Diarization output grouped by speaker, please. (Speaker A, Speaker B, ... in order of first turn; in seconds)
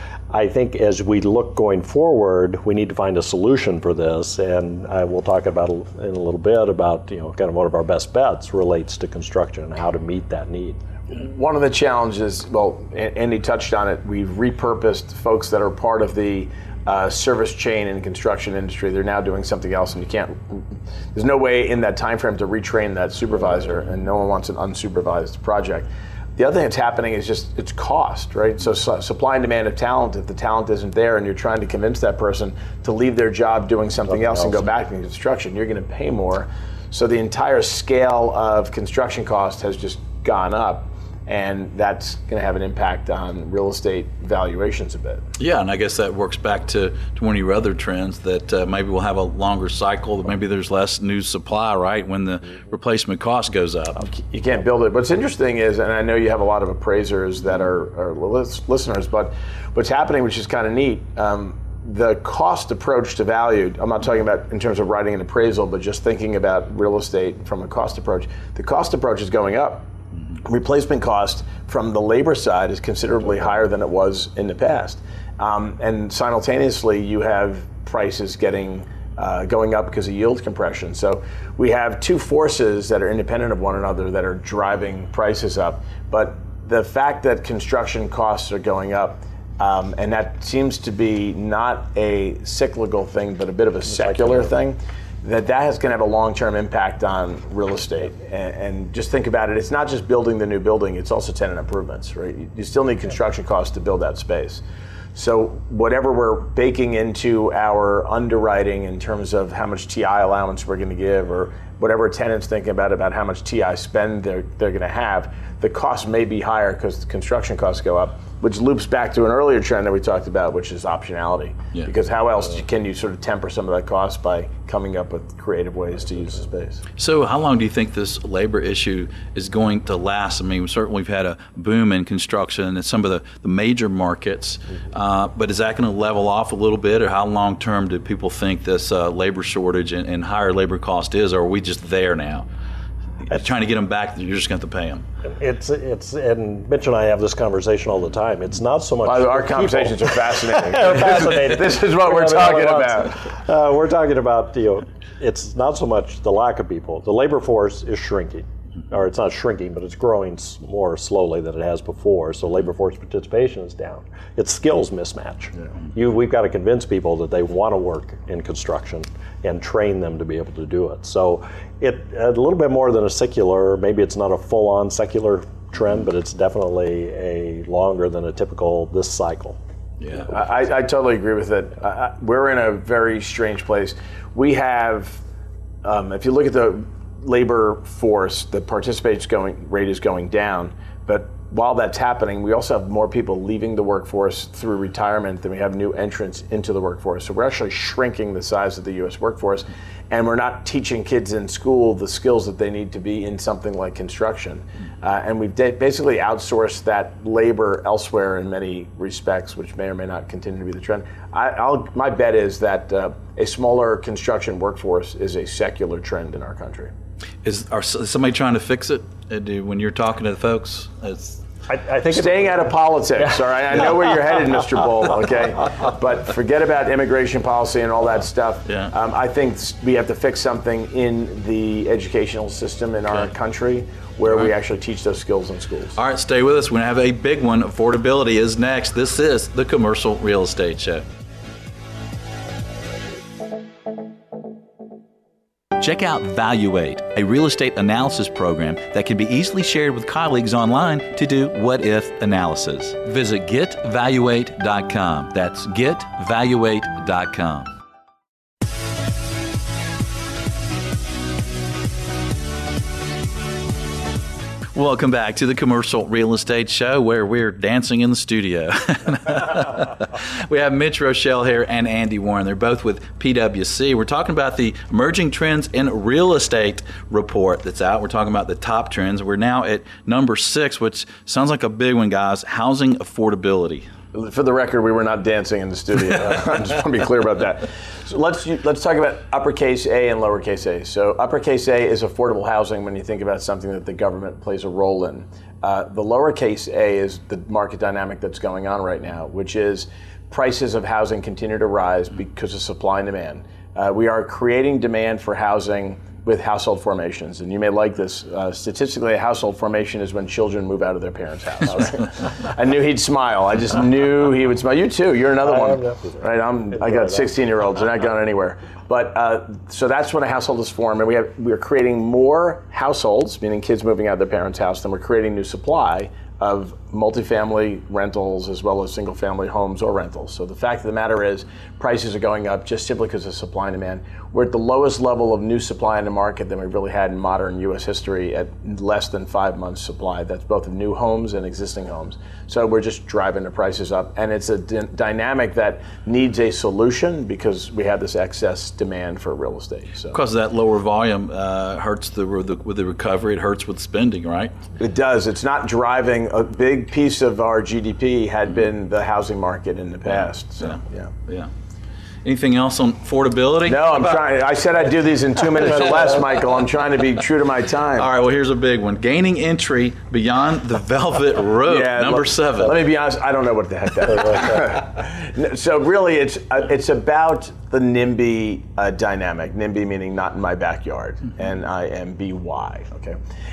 Speaker A: 0.3-10.8, 34.2-34.5, 145.2-179.6, 221.7-222.7, 315.5-316.2
Speaker B: 11.1-45.2, 54.1-69.9, 70.5-104.6, 105.2-126.8, 149.1-153.3, 180.3-185.2, 185.8-216.9, 222.1-236.0, 284.1-350.2, 354.8-361.1, 363.7-368.1, 371.7-383.2
Speaker C: 45.4-54.0, 127.0-142.5, 143.3-145.1, 180.0-180.3, 217.4-221.4, 236.0-241.1, 245.8-257.7, 264.8-283.9, 350.1-354.6, 360.6-361.5, 362.2-363.9, 368.0-372.8